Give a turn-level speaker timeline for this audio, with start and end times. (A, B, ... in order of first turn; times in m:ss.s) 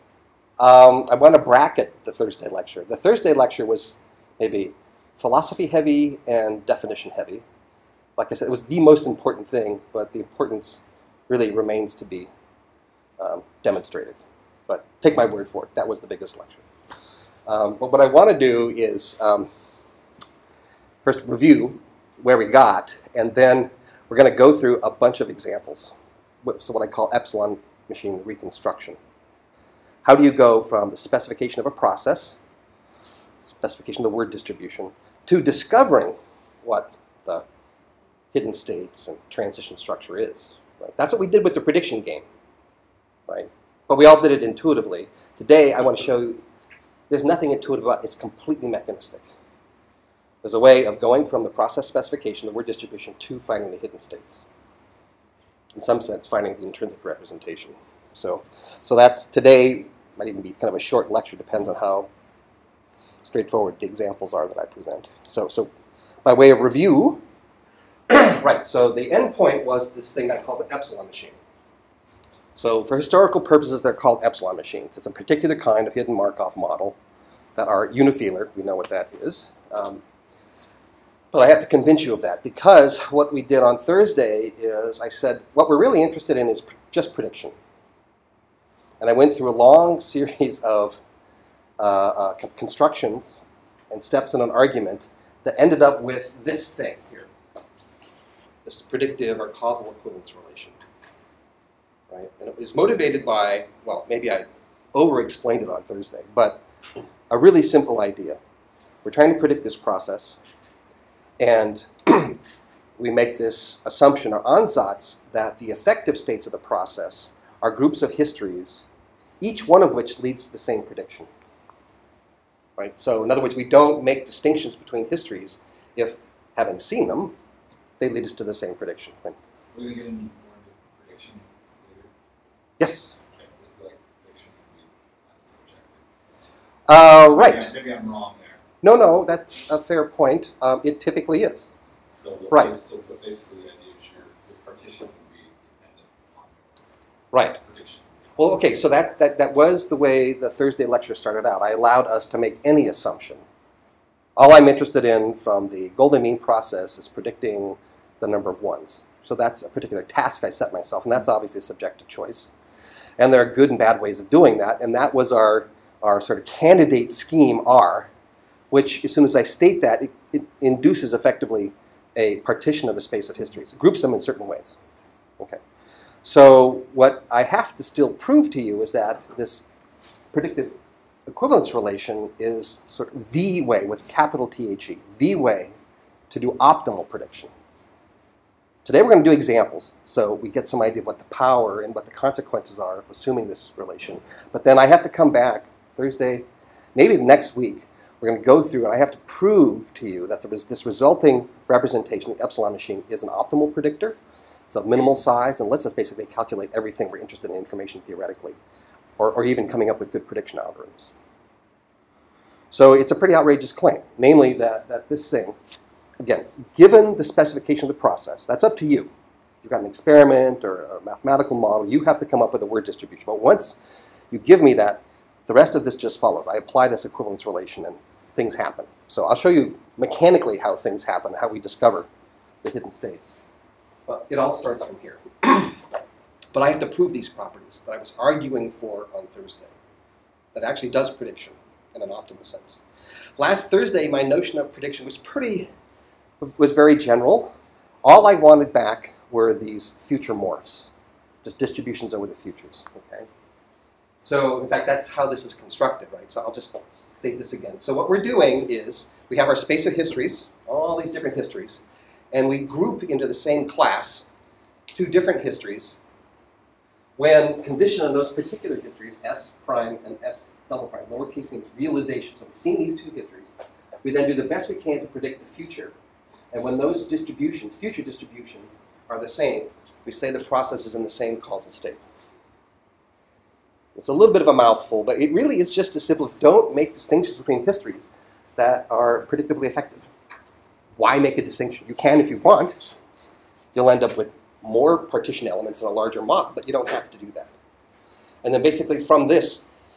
0:00.6-0:07.4 A
0:08.2-0:12.3 A
0:13.2-0:16.6 A
0:17.5-0:19.5 A
0:21.0-0:29.0 A
0:30.0-0:32.4 A
0:33.5-0:37.4 A
0:38.3-0:42.3 A
0:43.3-0:46.4 A
0:47.1-0:49.3 A
0:50.4-0:54.4 A
0:55.8-1:02.1 A
1:03.2-1:05.7 A
1:06.2-1:07.2 A
1:08.1-1:11.4 A
1:12.6-1:17.0 A
1:17.6-1:20.0 A
1:21.3-1:27.6 A
1:29.0-1:31.0 A
1:31.8-1:37.3 A
1:38.6-1:40.8 A
1:42.1-1:46.6 A
1:47.3-1:48.4 A
1:49.0-1:50.4 A
1:51.4-1:52.4 A
1:53.0-1:58.9 A
1:59.4-2:01.3 A
2:02.8-2:07.4 A
2:08.0-2:09.4 A
2:09.7-2:12.1 B
2:12.8-2:13.2 A
2:13.3-2:16.0 B
2:16.9-2:17.7 A
2:17.3-2:18.6 B
2:18.8-2:21.7 A
2:22.1-2:26.8 B
2:27.3-2:27.6 A
2:27.6-2:28.4 B
2:28.4-2:33.4 A
2:34.4-2:42.5 A
2:43.2-2:48.1 A
2:48.7-2:54.8 A
2:56.2-2:59.6 A
3:00.3-3:00.8 A
3:01.3-3:05.8 A
3:06.3-3:07.5 A
3:08.8-3:24.2 A
3:24.7-3:28.6 A
3:29.2-3:31.1 A
3:32.7-3:35.6 A
3:36.2-3:39.1 A
3:39.6-3:43.8 A
3:44.3-3:52.1 A
3:52.6-3:53.4 A
3:54.1-3:55.8 A
3:56.5-3:59.7 A
4:00.5-4:02.8 A
4:03.4-4:05.7 A
4:06.4-4:10.9 A
4:11.4-4:13.3 A
4:14.2-4:24.2 A
4:24.9-4:26.0 A
4:27.2-4:36.0 A
4:36.5-4:42.0 A
4:44.0-4:50.1 A
4:51.0-4:52.9 A
4:53.7-4:57.5 A
4:58.4-4:59.6 A